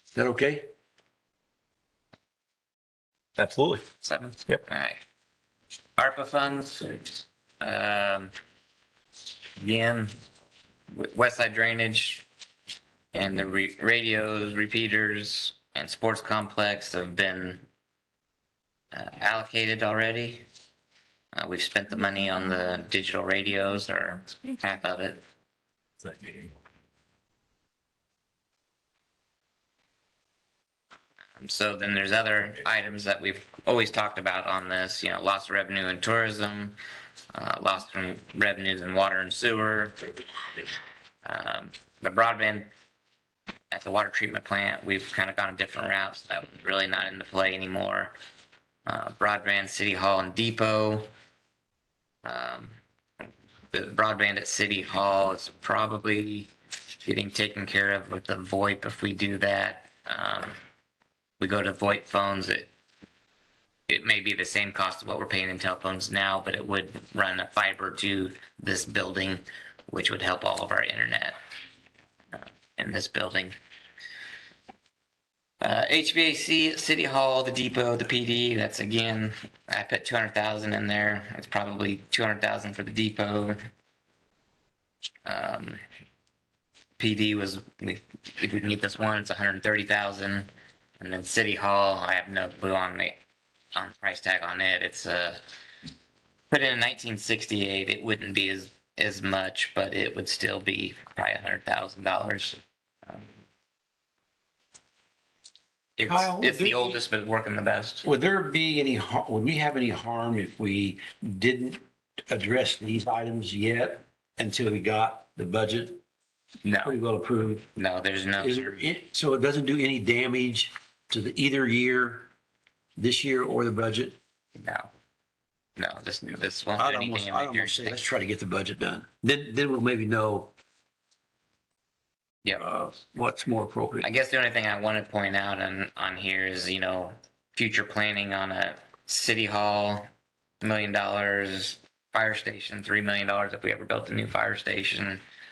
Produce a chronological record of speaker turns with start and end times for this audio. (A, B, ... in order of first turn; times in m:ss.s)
0:00.1-0:00.6 A
0:03.4-0:03.8 A
0:04.0-0:05.0 B
0:06.0-0:08.3 B
0:09.6-0:10.1 B
0:10.9-0:12.2 B
0:13.1-0:17.6 B
0:18.9-0:20.4 B
0:21.3-0:25.2 B
0:31.4-0:36.8 B
0:37.3-0:39.9 B
0:41.2-0:42.7 B
0:43.7-0:48.1 B
0:48.8-0:51.1 B
0:52.2-0:52.7 B
0:53.7-0:56.5 B
0:57.0-1:00.5 B
1:01.4-1:02.7 B
1:03.9-1:11.4 B
1:12.3-1:13.5 B
1:15.6-1:23.6 B
1:25.2-1:25.8 B
1:27.0-1:30.5 B
1:31.0-1:33.2 B
1:33.7-1:35.4 B
1:36.5-1:43.3 B
1:46.0-1:48.0 B
1:46.0-1:47.0 A
1:48.0-1:56.0 A
1:56.6-1:57.0 B
1:56.8-1:57.7 A
1:57.8-1:58.8 B
1:58.4-2:02.3 A
2:03.0-2:04.2 A
2:04.6-2:04.9 B
2:05.8-2:08.0 B
2:06.8-2:10.5 A
2:12.6-2:14.1 A
2:14.0-2:20.1 B
2:20.6-2:25.2 B